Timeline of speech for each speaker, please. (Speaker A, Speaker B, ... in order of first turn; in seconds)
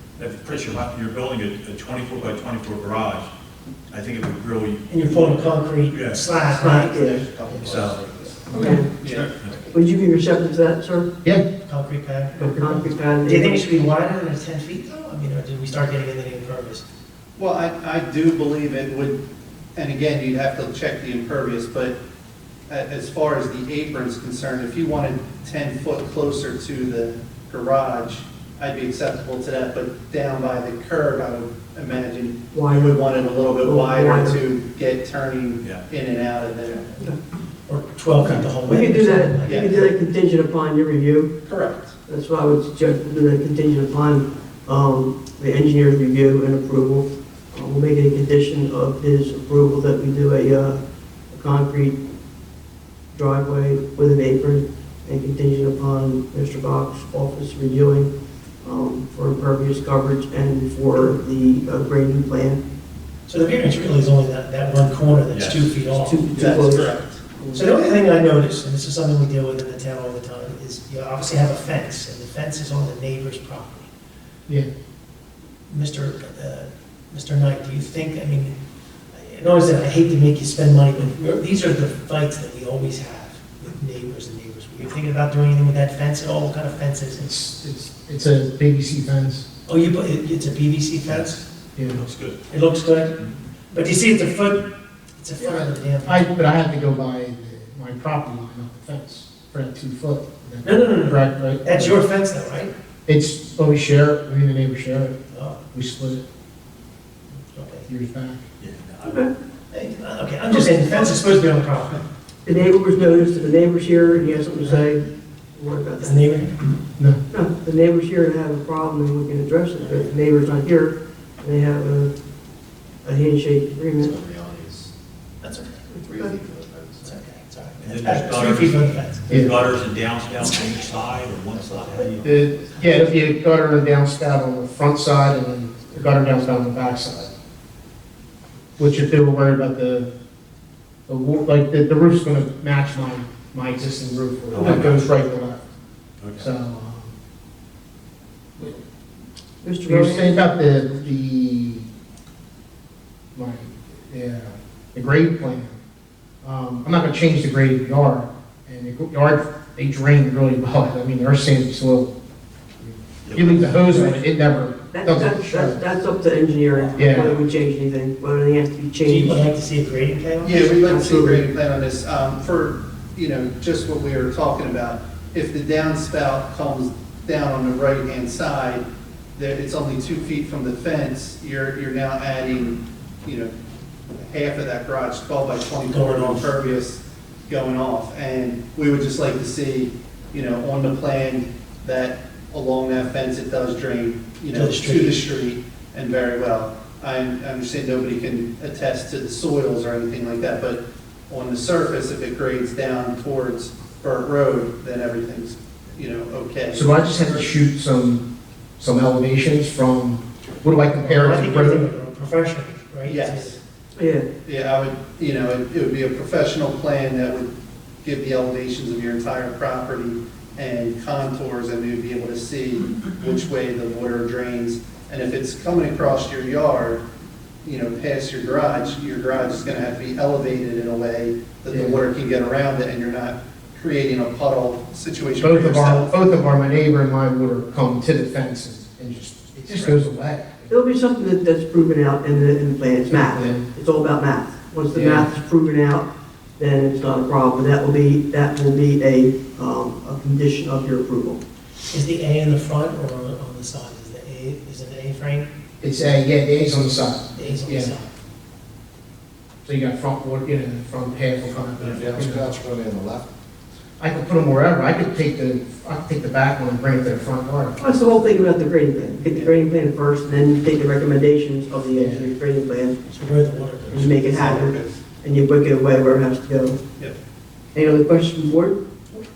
Speaker A: 0.2-3.3, 3.9-5.4, 5.9-6.2, 7.6-8.0, 65.3-65.7, 91.9-92.4, 108.6-109.2, 127.8-132.3, 144.5-145.1, 146.2-146.5, 163.2-163.8
Speaker B: 4.9-7.8, 11.6-16.8, 37.7-39.9, 63.2-66.5, 67.5-73.9, 75.7-78.6, 79.1-87.3, 89.7-91.4, 92.5-93.2, 93.7-96.4, 100.6-102.7, 105.3-105.6, 107.5-107.9, 109.7-112.0, 116.0-116.7, 119.8-120.1, 125.4-126.4, 127.0-129.2, 131.7-132.1, 169.0-170.6, 185.9-186.5, 194.5-195.2, 211.0-213.6, 239.6-239.9, 251.9-255.5, 257.3-258.1, 273.1-274.6
Speaker C: 6.5-7.3, 8.5-8.9, 9.7-11.1, 12.4-13.9, 32.5-33.0, 33.6-34.4, 38.2-41.3, 42.0-50.8, 51.3-51.9, 53.1-58.1, 58.6-62.6, 66.0-66.9, 109.0-109.3, 112.4-116.4, 117.3-122.1, 123.0-124.1, 149.6-150.4, 164.9-169.5, 170.5-171.5, 213.9-214.3, 240.7-246.1, 246.6-251.4, 267.8-273.0, 273.9-276.8, 277.7-278.8
Speaker D: 6.9-8.8, 124.0-124.9, 126.1-127.3, 127.9-128.4, 129.6-129.8, 130.4-133.2, 135.9-137.3, 261.6-263.3
Speaker E: 8.5-8.8, 87.2-89.5, 91.7-92.0, 95.4-102.0, 103.0-105.2, 105.7-106.2, 107.8-108.4, 129.3-129.6, 132.2-137.3, 138.8-140.1, 141.1-145.6, 146.4-147.1, 149.8-151.9, 153.3-155.8, 156.4-162.1, 162.8-165.8, 166.9-167.3, 206.7-208.2, 208.8-211.8, 231.7-232.0, 235.4-240.7, 243.1-243.7, 244.9-245.3, 255.8-257.9, 259.6-262.6, 264.0-267.8, 271.9-272.3
Speaker F: 8.9-9.4, 17.4-19.2, 19.8-21.9, 22.7-36.9, 39.4-39.8, 41.4-42.0, 66.3-67.7, 170.4-183.5, 184.2-207.5, 213.0-213.6, 214.4-217.5, 218.0-227.0, 227.6-236.1, 269.1-269.6, 274.4-275.0